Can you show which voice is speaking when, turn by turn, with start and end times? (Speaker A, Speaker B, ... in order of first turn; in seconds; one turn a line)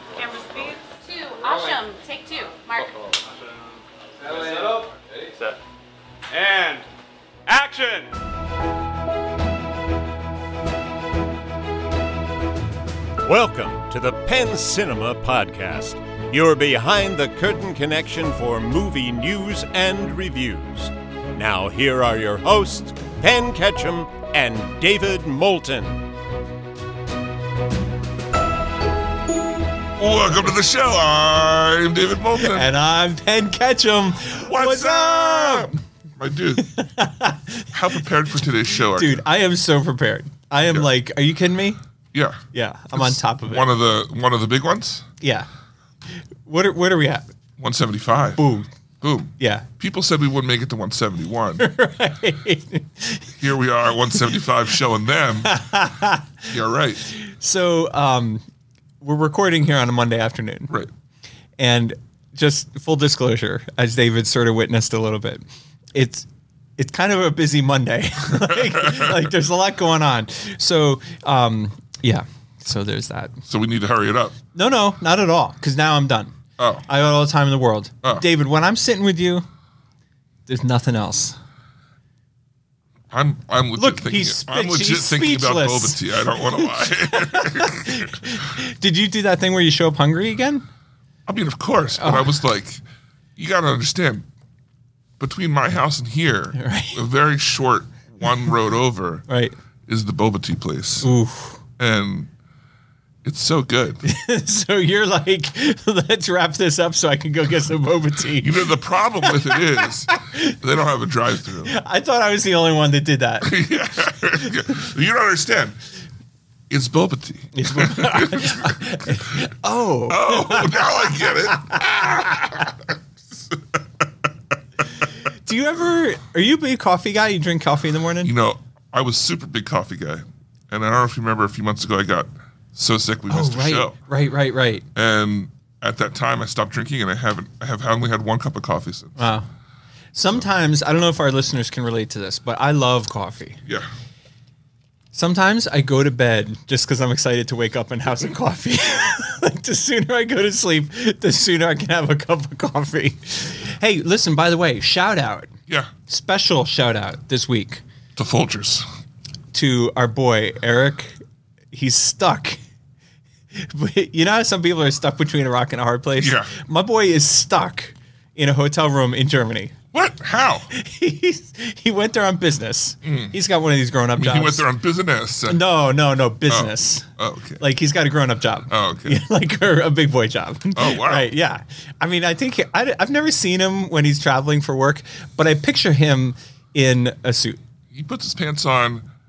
Speaker A: 0.2-3.0
Speaker B: 2.8-5.6
Speaker B: 6.3-6.8
Speaker B: 7.5-8.1
Speaker C: 13.2-26.1
Speaker D: 30.0-32.7
Speaker E: 32.4-35.8
Speaker D: 34.4-36.7
Speaker E: 36.6-38.0
Speaker D: 37.7-39.2
Speaker E: 38.9-41.8
Speaker D: 42.1-42.4
Speaker E: 42.5-43.7
Speaker D: 42.9-45.1
Speaker E: 45.2-45.5
Speaker E: 46.1-47.2
Speaker D: 47.6-48.4
Speaker E: 48.4-48.7
Speaker D: 49.0-51.6
Speaker E: 49.4-49.7
Speaker E: 51.6-53.3
Speaker D: 53.4-55.5
Speaker E: 55.4-56.5
Speaker D: 56.5-57.1
Speaker E: 57.0-58.4
Speaker E: 59.0-60.7
Speaker E: 61.6-65.4
Speaker E: 65.9-66.3
Speaker E: 66.8-73.4
Speaker D: 68.3-69.3
Speaker D: 73.5-74.4
Speaker E: 74.5-76.3
Speaker D: 76.6-76.9
Speaker E: 76.9-79.5
Speaker E: 80.5-81.4
Speaker D: 83.1-88.4
Speaker E: 83.8-90.7
Speaker D: 91.3-92.8
Speaker E: 92.0-92.4
Speaker D: 93.4-94.3
Speaker D: 95.2-99.3
Speaker E: 96.5-97.0
Speaker E: 99.3-99.5
Speaker D: 99.9-101.1
Speaker E: 101.0-101.6
Speaker D: 101.8-102.3
Speaker D: 103.2-104.0
Speaker E: 104.0-108.7
Speaker D: 108.4-111.7
Speaker E: 109.2-110.5
Speaker E: 111.7-113.6
Speaker D: 113.4-115.8
Speaker D: 116.7-119.5
Speaker E: 117.5-121.8
Speaker D: 120.1-124.1
Speaker E: 125.4-128.3
Speaker D: 128.2-134.0
Speaker E: 133.3-134.8
Speaker D: 134.9-139.2
Speaker E: 139.2-139.5
Speaker E: 140.1-143.6
Speaker E: 145.1-155.5
Speaker E: 156.1-157.8
Speaker D: 158.2-158.8
Speaker E: 159.5-161.2
Speaker E: 161.7-162.6
Speaker E: 163.6-169.8
Speaker D: 166.2-166.5
Speaker D: 169.9-170.7
Speaker E: 170.7-174.7
Speaker D: 173.0-173.3
Speaker D: 174.2-175.6
Speaker E: 175.5-177.1
Speaker D: 176.5-177.6
Speaker E: 177.6-187.6
Speaker D: 178.7-179.2
Speaker D: 180.7-181.3
Speaker D: 187.9-189.1